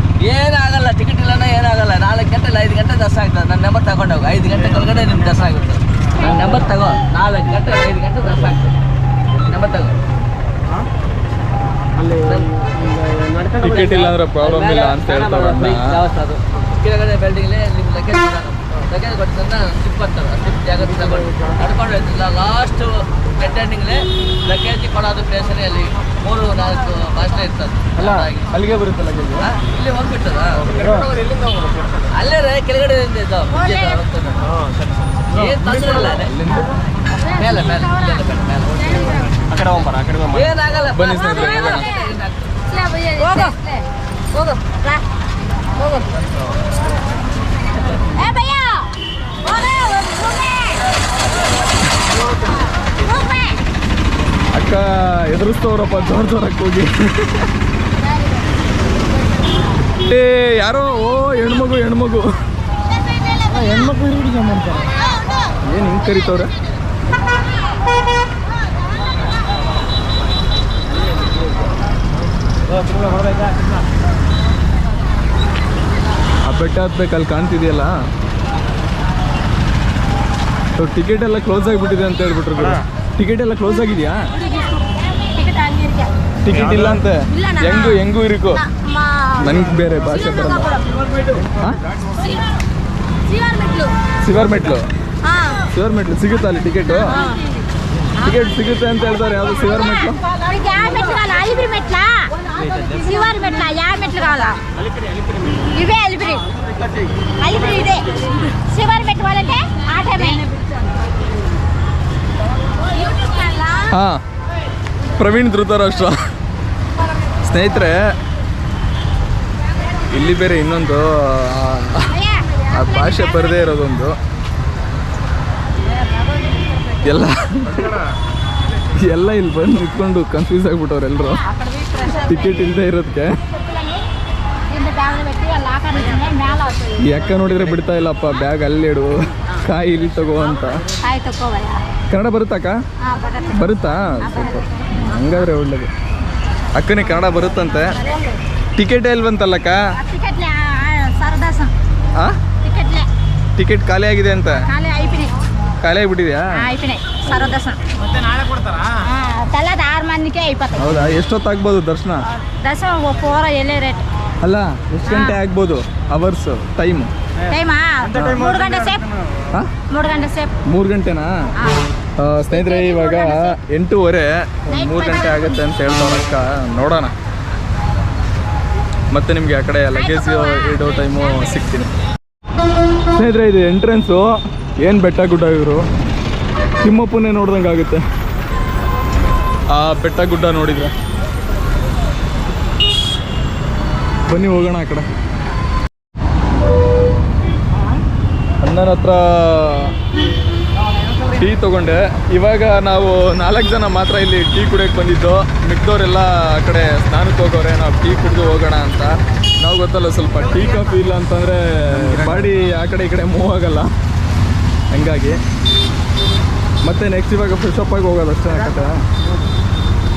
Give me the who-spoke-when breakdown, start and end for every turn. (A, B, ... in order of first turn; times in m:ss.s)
0:00.2-0:08.7 A
0:09.3-0:10.0 A
0:12.0-0:12.5 A
0:13.1-0:13.5 B
0:13.5-0:16.0 C
0:14.4-0:28.5 A
0:28.0-0:29.4 C
0:29.4-0:30.9 A
0:30.7-0:32.0 B
0:32.1-0:34.4 A
0:33.5-0:34.0 D
0:34.5-0:35.2 B
0:35.3-0:36.3 A
0:35.5-0:36.7 C
0:37.2-0:38.2 D
0:37.3-0:39.3 A
0:39.4-0:40.5 B
0:40.3-0:42.6 A
0:40.9-0:41.9 C
0:41.6-0:41.9 D
0:42.7-0:45.0 D
0:48.1-0:48.9 D
0:49.4-0:50.8 D
0:52.4-0:53.6 D
0:54.5-0:57.5 C
1:00.0-1:02.3 C
1:05.6-1:06.5 C
1:16.4-1:17.9 C
1:20.8-1:24.2 C
1:24.4-1:26.1 D
1:26.4-1:28.6 C
1:27.3-1:30.8 D
1:29.4-1:30.7 C
1:32.2-1:32.4 D
1:33.3-1:33.9 D
1:34.2-1:34.9 C
1:35.2-1:35.6 D
1:35.7-1:37.2 C
1:37.0-1:37.4 D
1:38.2-1:40.2 C
1:39.8-1:44.6 D
1:45.6-1:46.5 D
1:47.4-1:50.5 D
1:52.9-1:53.9 D
1:53.9-1:54.2 C
1:55.2-1:56.1 C
1:57.4-1:58.1 C
2:00.1-2:02.2 C
2:02.1-2:03.5 D
2:02.7-2:04.2 C
2:07.0-2:08.0 C
2:09.0-2:11.4 C
2:11.4-2:12.5 D
2:12.1-2:13.4 C
2:13.6-2:14.0 D
2:14.7-2:17.0 D
2:17.0-2:20.8 C
2:21.0-2:21.8 D
2:22.1-2:22.8 C
2:23.0-2:23.6 D
2:23.5-2:25.9 C
2:24.2-2:24.8 D
2:26.7-2:28.0 C
2:28.8-2:29.8 C
2:29.9-2:31.7 D
2:32.6-2:33.1 D
2:33.6-2:34.7 C
2:34.6-2:35.3 D
2:35.8-2:36.6 C
2:36.5-2:37.8 D
2:37.2-2:37.5 C
2:38.9-2:41.0 D
2:40.7-2:42.2 C
2:42.4-2:44.0 D
2:44.4-2:47.1 C
2:45.0-2:45.4 D
2:47.5-2:49.1 D
2:48.1-2:48.5 C
2:49.9-2:50.5 D
2:50.6-2:51.3 C
2:51.6-2:51.8 D
2:52.2-2:57.1 C
2:52.5-2:53.5 D
2:54.7-2:55.6 D
2:59.1-3:01.9 C
2:59.9-3:01.2 D
3:03.1-3:05.8 C
3:06.8-3:08.0 C
3:09.7-3:10.9 C
3:14.3-3:15.0 C
3:18.6-3:19.9 C
3:21.3-3:33.9 C
3:34.9-3:35.4 C
3:36.8-3:38.9 C